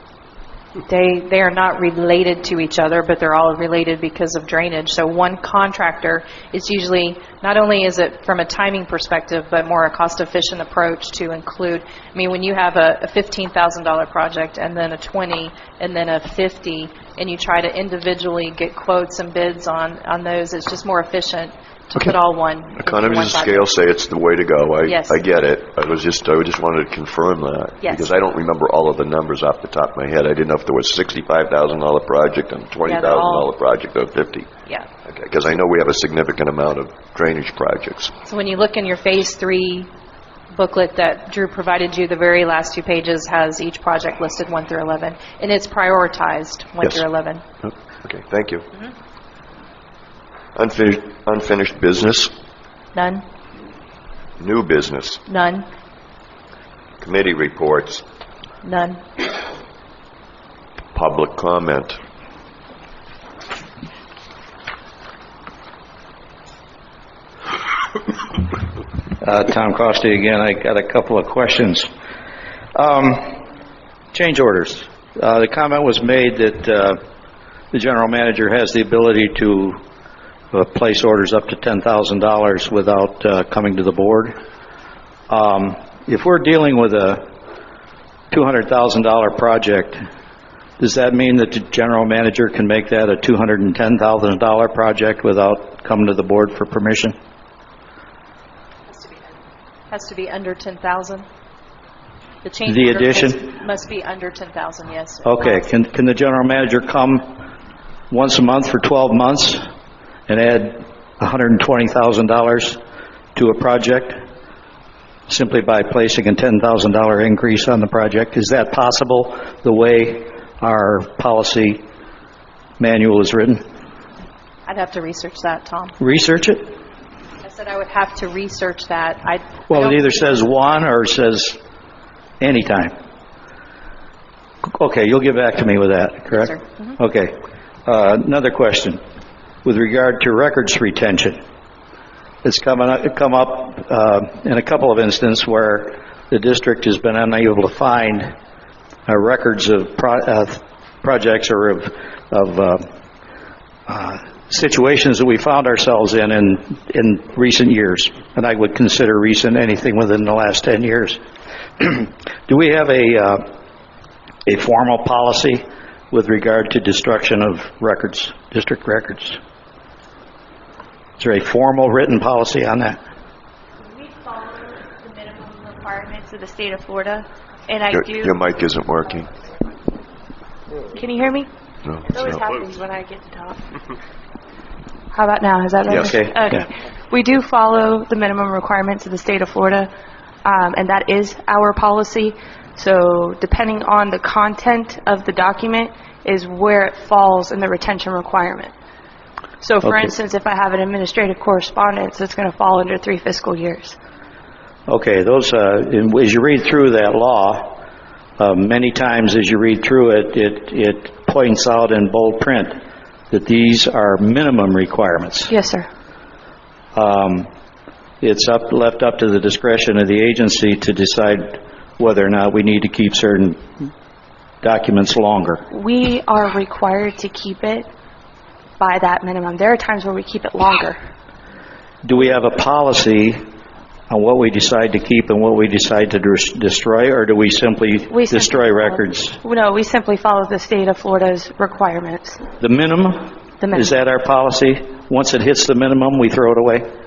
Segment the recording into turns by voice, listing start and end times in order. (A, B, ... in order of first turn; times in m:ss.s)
0:00.9-0:23.7 A
0:22.8-0:34.5 B
0:24.8-0:25.2 A
0:27.8-0:28.1 A
0:32.9-0:33.5 A
0:35.1-0:38.1 B
0:38.2-0:39.9 A
0:40.5-0:47.4 A
0:48.0-0:48.6 B
0:50.6-0:52.3 B
0:52.9-0:53.2 A
0:54.4-0:55.2 B
0:55.3-0:55.6 A
0:57.0-0:58.0 B
0:58.6-0:59.0 A
1:00.9-1:02.0 B
1:09.2-1:11.9 C
1:12.8-1:13.4 C
1:14.1-1:17.0 C
1:17.7-1:19.8 C
1:20.5-1:24.4 C
1:25.3-1:27.2 C
1:28.3-1:30.0 C
1:30.8-1:37.2 C
1:38.9-1:39.3 A
1:39.9-1:41.2 A
1:42.4-1:45.7 A
1:42.7-1:43.4 C
1:45.2-1:47.3 C
1:48.1-1:49.6 C
1:50.3-1:52.8 C
1:53.4-1:54.2 C
1:55.3-2:01.8 C
2:02.8-2:03.6 C
2:04.7-2:06.0 A
2:06.0-2:06.7 C
2:07.4-2:10.5 A
2:09.7-2:11.6 C
2:12.4-2:12.9 C
2:14.7-2:19.0 C
2:16.3-2:16.9 A
2:19.6-2:21.4 C
2:22.4-2:28.3 C
2:29.1-2:32.8 C
2:33.9-2:41.2 C
2:41.8-2:43.4 C
2:44.5-2:49.4 C
2:51.2-2:53.0 C
2:53.8-2:58.4 D
2:57.9-2:59.3 B
3:00.9-3:01.5 D
3:01.8-3:02.3 B
3:02.1-3:03.6 D
3:05.1-3:09.9 D
3:05.9-3:06.4 C
3:10.4-3:18.7 D
3:19.6-3:24.0 D
3:24.9-3:27.8 C
3:28.4-3:32.8 C
3:33.3-3:35.5 C
3:35.5-3:35.9 D
3:37.0-3:37.5 C
3:38.2-3:43.6 C
3:44.6-3:45.6 C
3:45.7-3:47.9 D
3:48.8-3:51.0 D
3:52.0-3:53.4 C
3:54.1-3:59.4 C
3:58.1-4:02.4 D
4:02.6-4:06.9 C
4:03.6-4:03.9 D